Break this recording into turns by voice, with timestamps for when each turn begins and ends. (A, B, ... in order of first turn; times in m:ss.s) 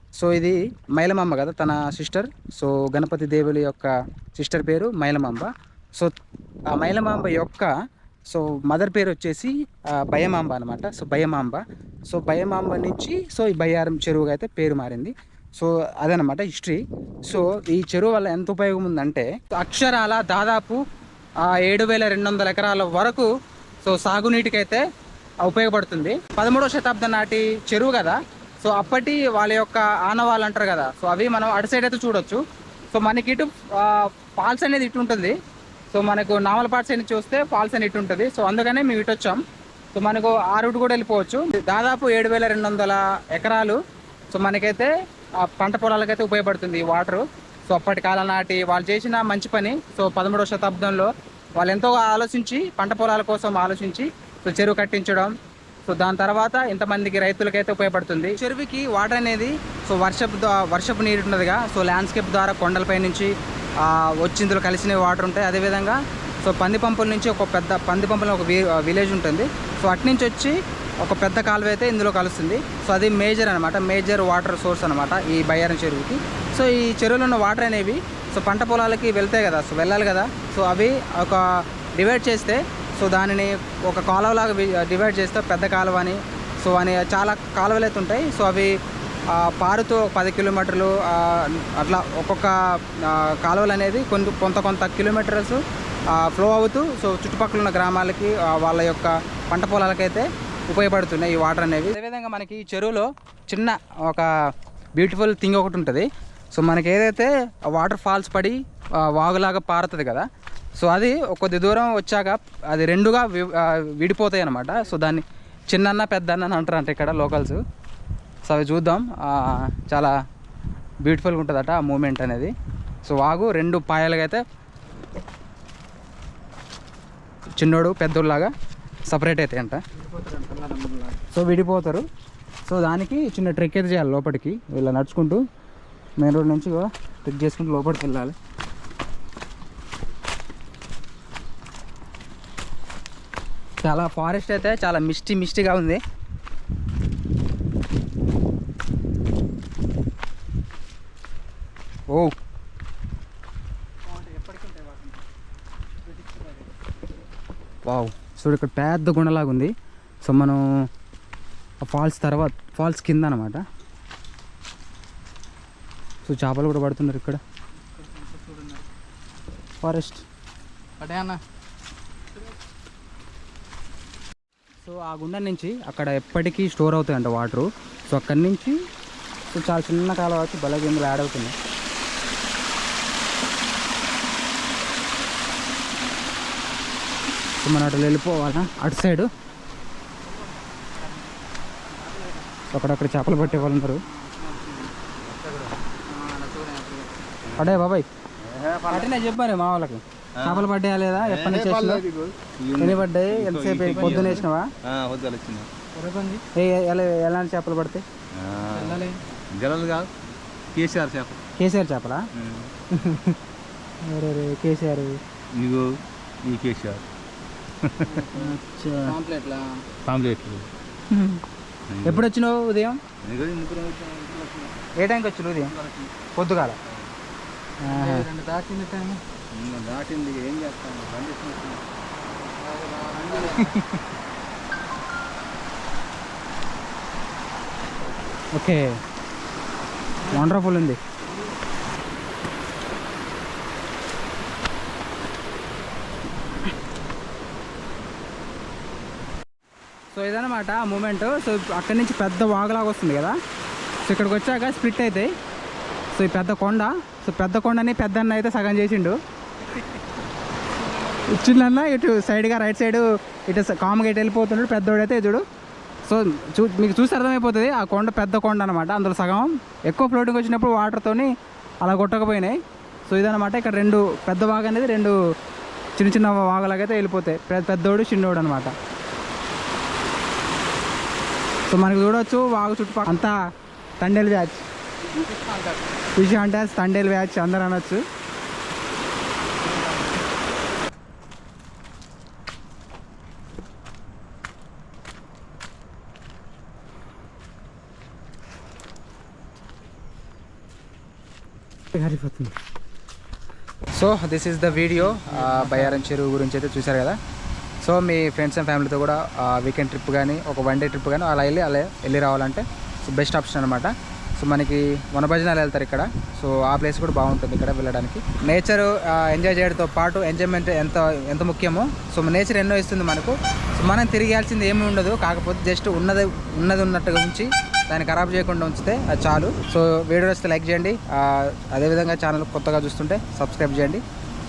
0:00.2-0:06.1 A
0:06.7-0:07.7 A
0:08.3-0:20.8 A
0:21.4-0:23.3 A
0:23.8-0:24.8 A
0:25.4-0:32.4 A
0:32.9-0:35.3 A
0:35.9-0:39.4 A
0:39.9-0:43.8 A
0:44.3-0:55.3 A
0:55.9-1:28.7 A
1:29.3-1:35.6 A
1:36.1-1:44.3 A
1:45.0-1:50.3 A
1:50.8-1:57.6 A
1:58.4-2:00.1 A
2:01.0-2:02.5 A
2:03.0-2:04.4 A
2:07.6-2:08.5 A
2:09.1-2:09.8 A
2:10.0-2:11.2 B
2:11.2-2:12.0 A
2:12.7-2:15.4 A
2:16.2-2:18.4 A
2:23.8-2:26.0 A
2:34.0-2:35.2 B
2:36.0-2:36.7 B
2:37.9-2:39.7 A
2:40.2-2:40.6 A
2:41.8-2:43.6 A
2:46.2-2:47.4 A
2:47.8-2:48.9 B
2:49.8-2:50.2 A
2:51.0-2:51.4 B
2:54.8-2:58.7 A
2:59.5-3:01.5 A
3:07.6-3:09.3 A
3:11.9-3:12.5 B
3:12.7-3:14.0 A
3:13.4-3:14.9 B
3:15.3-3:15.7 C
3:16.0-3:17.3 B
3:17.5-3:17.8 C
3:17.6-3:18.1 A
3:18.4-3:19.1 C
3:18.9-3:22.0 A
3:20.4-3:25.7 C
3:22.8-3:24.7 A
3:23.9-3:24.3 B
3:25.9-3:26.4 B
3:26.5-3:28.0 A
3:28.3-3:29.0 C
3:28.7-3:29.2 B
3:29.6-3:30.1 C
3:30.7-3:31.4 C
3:31.6-3:32.2 A
3:32.4-3:32.7 C
3:32.9-3:33.4 A
3:34.0-3:35.2 A
3:35.6-3:35.8 C
3:36.4-3:37.0 C
3:37.8-3:39.2 C
3:38.1-3:39.7 B
3:38.4-3:39.1 A
3:40.0-3:40.7 C
3:41.1-3:41.4 A
3:41.9-3:42.3 C
3:42.0-3:43.0 A
3:43.2-3:44.7 C
3:45.0-3:45.7 A
3:45.7-3:46.3 C
3:46.3-3:46.8 A
3:47.8-3:48.2 A
3:47.8-3:49.2 B
3:49.5-3:51.9 C
3:52.5-3:53.7 B
3:53.3-3:53.9 A
3:53.3-3:53.8 C
3:58.5-3:59.0 A
4:00.2-4:01.0 A
4:10.1-4:13.4 A
4:14.0-4:15.3 A
4:16.2-4:19.1 A
4:21.2-4:25.4 A
4:26.0-4:31.3 A
4:31.8-4:35.1 A
4:36.0-4:38.7 A
4:41.7-4:43.3 A
4:44.0-4:44.6 A
4:45.1-4:45.8 B
4:46.2-4:48.0 A
4:49.6-4:50.0 B
5:01.9-5:02.5 A
5:03.9-5:07.2 A
5:04.7-5:06.1 B
5:07.8-5:34.0 A